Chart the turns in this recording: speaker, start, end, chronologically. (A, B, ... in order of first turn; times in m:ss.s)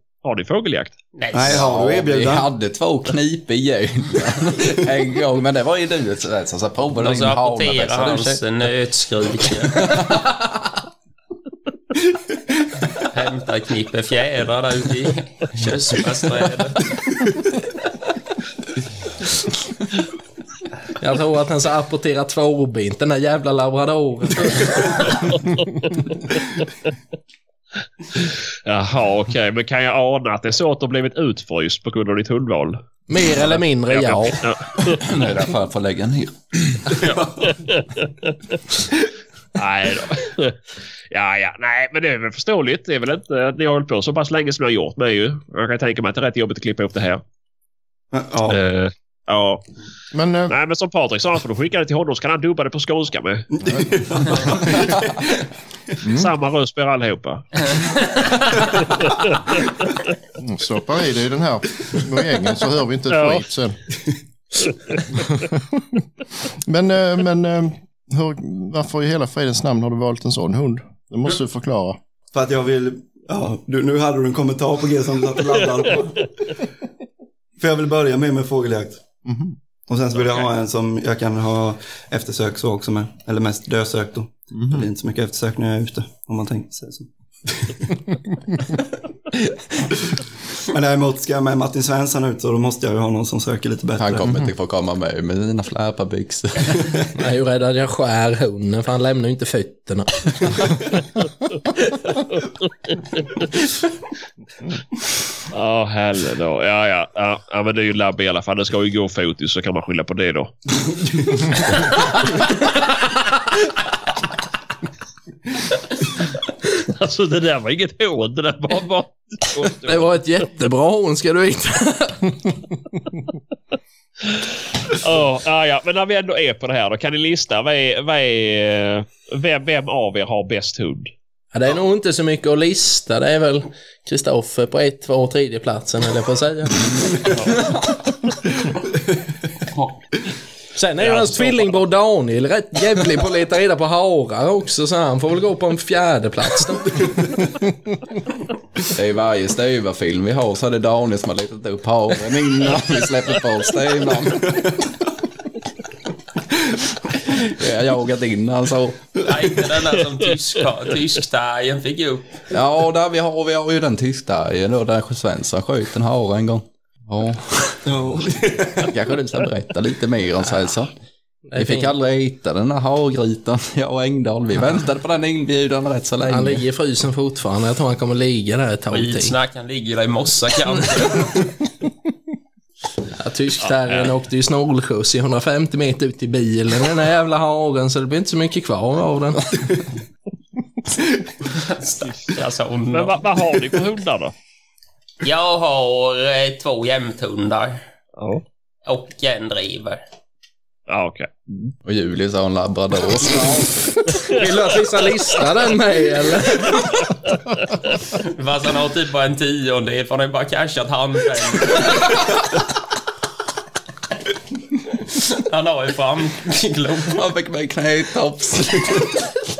0:00.2-0:01.0 A
0:01.2-0:01.6 B
0:01.3-0:02.5 C
0:01.5-0:08.4 D
0:07.0-0:10.0 B
0:09.7-0:10.6 D
0:13.1-0:16.9 B
0:21.0-0:25.2 E
0:25.2-0:26.7 A
0:28.1-0:32.8 A
0:33.1-0:34.4 E
0:33.4-0:35.0 A
0:34.9-0:37.1 D
0:37.4-0:38.4 A
0:39.6-0:40.6 A
0:41.1-0:47.2 A
0:48.1-0:48.6 C
0:48.5-0:49.6 A
0:50.1-0:50.5 F
0:50.5-0:53.5 A
0:53.5-0:55.4 C
0:53.6-0:54.7 F
0:56.0-0:56.3 F
0:56.1-0:57.8 A
0:59.0-0:59.7 A
1:00.4-1:03.8 F
1:03.1-1:03.4 A
1:04.7-1:05.0 A
1:05.1-1:06.0 F
1:06.6-1:12.0 F
1:12.3-1:16.5 C
1:17.6-1:19.0 C
1:19.2-1:19.6 F
1:19.9-1:28.0 C
1:24.5-1:24.9 F
1:29.3-1:29.6 D
1:30.0-1:34.3 C
1:34.0-1:37.1 D
1:37.1-1:40.8 E
1:42.3-1:43.4 A
1:45.5-1:50.7 A
1:56.8-2:00.1 A
1:59.8-2:02.5 E
2:04.2-2:11.1 A
2:11.5-2:17.3 E
2:20.7-2:27.3 E
2:21.0-2:21.8 A
2:28.9-2:34.8 D
2:36.5-2:39.2 D
2:39.2-2:42.4 B
2:42.5-2:47.8 D
2:47.9-2:49.0 C
2:48.8-2:50.9 D
2:51.5-2:51.9 E
2:51.6-2:56.6 D
2:56.2-2:59.3 E
2:58.9-3:01.4 B
3:03.1-3:09.5 E
3:03.7-3:04.1 A
3:11.5-3:13.3 B
3:12.9-3:14.3 A
3:15.2-3:17.8 B
3:18.2-3:18.4 A
3:18.8-3:20.0 B
3:20.9-3:21.7 A
3:21.8-3:24.3 D
3:24.3-3:26.8 E
3:28.2-3:32.2 B
3:35.1-3:37.2 B
3:37.1-3:39.4 D